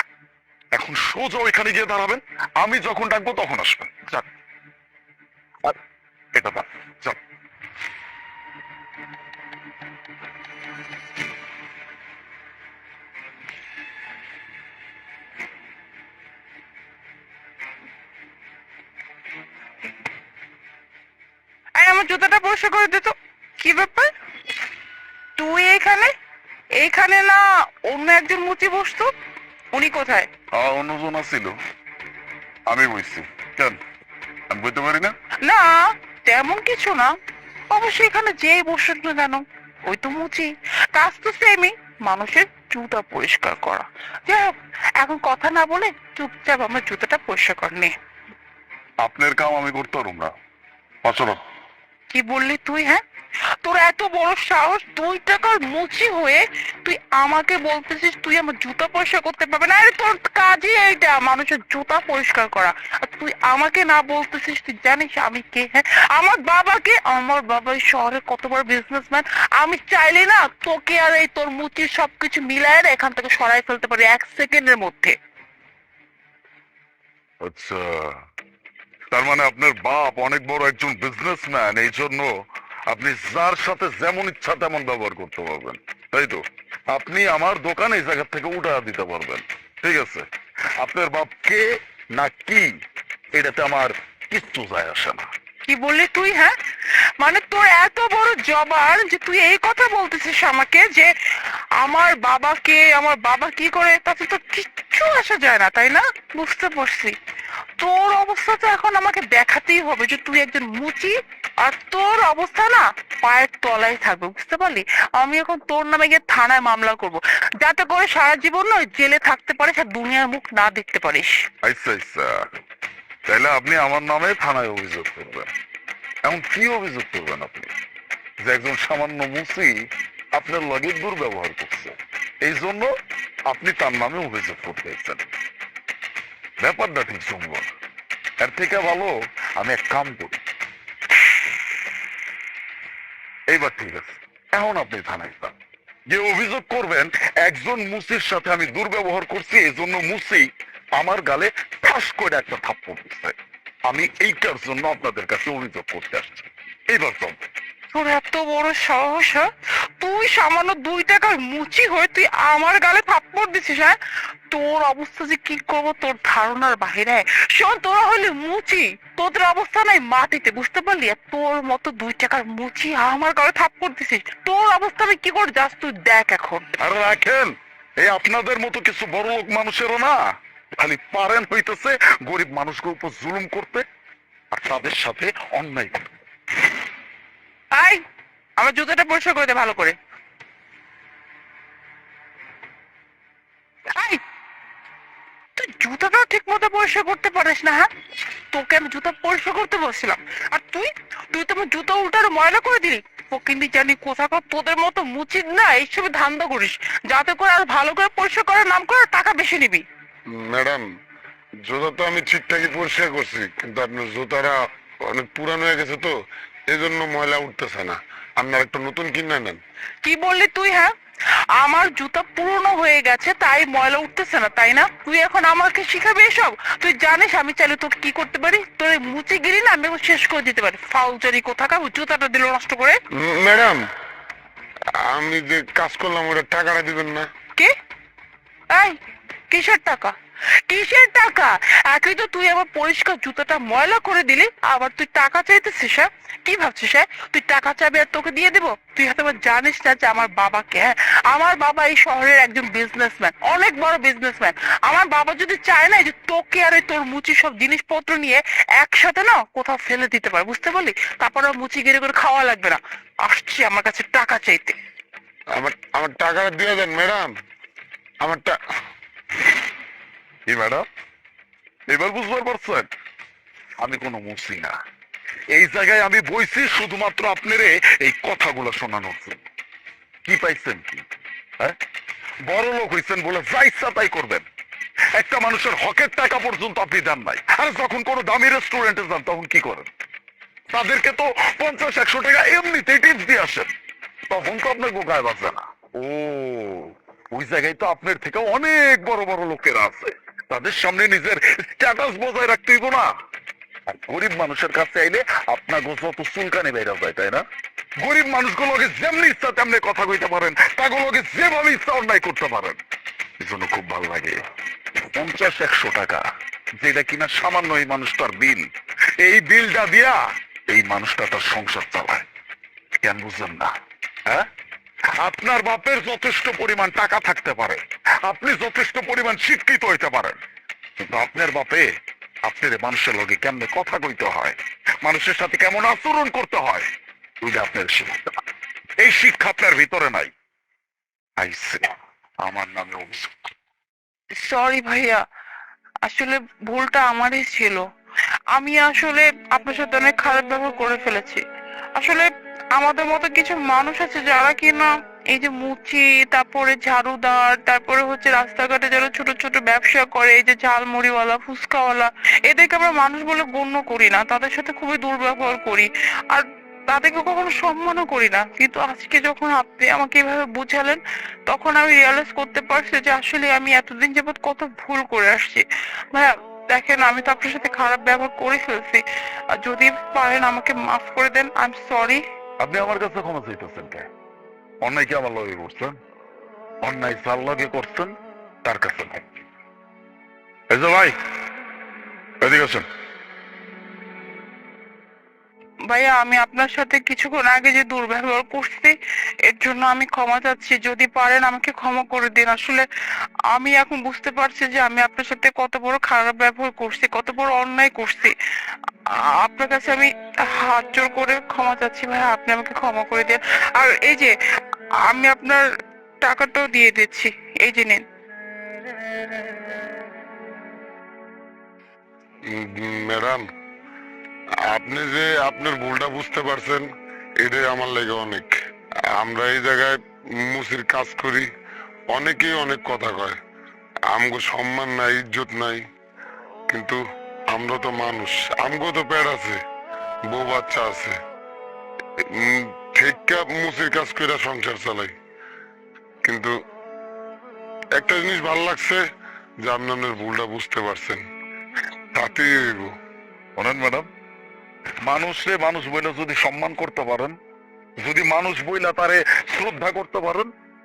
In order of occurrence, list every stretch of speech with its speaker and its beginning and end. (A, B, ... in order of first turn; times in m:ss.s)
0:00.7-0:04.3 A
0:06.3-0:07.2 A
0:21.8-0:24.1 B
0:25.4-0:26.1 B
0:26.8-0:29.1 B
0:29.7-0:30.3 B
0:30.6-0:31.5 A
0:32.7-0:33.8 A
0:34.5-0:35.1 A
0:35.4-0:37.1 B
0:37.7-0:47.9 B
0:49.0-0:50.3 A
0:51.0-0:51.4 A
0:52.1-0:53.0 B
0:53.6-1:15.1 B
1:17.4-1:18.2 A
1:19.1-1:22.3 A
1:22.9-1:30.2 A
1:30.8-1:32.7 A
1:33.3-1:35.3 A
1:35.7-1:36.5 B
1:37.2-1:41.1 B
1:41.8-1:47.2 B
1:47.8-2:01.4 B
2:01.6-2:02.5 A
2:03.3-2:05.5 A
2:06.2-2:07.7 A
2:08.4-2:09.8 A
2:10.3-2:12.9 A
2:13.5-2:15.2 A
2:16.6-2:17.7 A
2:18.4-2:20.4 A
2:23.5-2:25.5 A
2:26.1-2:33.3 A
2:33.9-2:37.4 A
2:37.9-2:39.5 B
2:40.0-2:44.0 B
2:44.5-2:56.7 B
2:56.8-3:03.8 A
3:04.5-3:06.0 A
3:07.7-3:08.0 B
3:08.6-3:10.0 B
3:13.9-3:14.2 B
3:15.6-3:17.9 B
3:18.5-3:29.8 B
3:30.3-3:30.9 C
3:31.6-3:36.1 C
3:36.7-3:39.6 C
3:40.0-3:40.9 B
3:41.6-3:53.0 B
3:53.1-3:53.9 C
3:55.0-3:57.3 C
3:58.7-3:59.0 B
3:59.5-4:00.1 B
4:00.7-4:24.8 B
4:25.5-4:27.3 C
4:28.2-4:28.6 C
4:30.5-4:30.8 A
4:31.9-4:32.9 A
4:33.8-4:34.7 A
4:35.5-4:39.4 A
4:40.2-4:41.0 A
4:42.5-4:44.4 A
4:45.2-4:49.9 A
4:50.7-4:53.7 A
4:54.3-5:03.1 A
5:03.9-5:07.4 A
5:08.0-5:12.8 A
5:13.4-5:14.4 A
5:15.1-5:16.2 A
5:16.8-5:20.2 A
5:20.7-5:22.2 A
5:23.0-5:23.7 A
5:25.2-5:30.4 A
5:31.0-5:31.8 A
5:32.4-5:36.9 A
5:37.4-5:38.4 A
5:39.0-5:40.3 A
5:41.4-5:41.9 A
5:42.4-5:43.4 A
5:44.4-5:45.2 B
5:46.0-5:47.8 B
5:48.5-5:51.4 B
5:52.0-6:22.2 B
6:22.6-6:24.1 A
6:24.8-6:26.0 A
6:26.8-6:29.4 A
6:30.7-6:31.1 A
6:32.4-6:32.8 A
6:35.9-6:38.9 B
6:39.5-6:42.8 B
6:43.5-6:48.3 B
6:49.1-6:54.3 B
6:55.0-6:55.6 B
6:56.2-6:58.0 B
7:02.4-7:03.4 C
7:04.7-7:06.9 C
7:07.4-7:08.6 C
7:09.2-7:11.5 C
7:12.1-7:13.4 C
7:14.1-7:15.8 C
7:16.7-7:17.0 C
7:17.5-7:19.6 C
7:20.3-7:21.2 C
7:22.2-7:25.2 C
7:26.2-7:26.5 C
7:28.0-7:29.0 C
7:29.6-7:31.2 C
7:32.1-7:32.9 C
7:33.6-7:34.1 A
7:35.0-7:37.4 A
7:38.0-7:40.5 A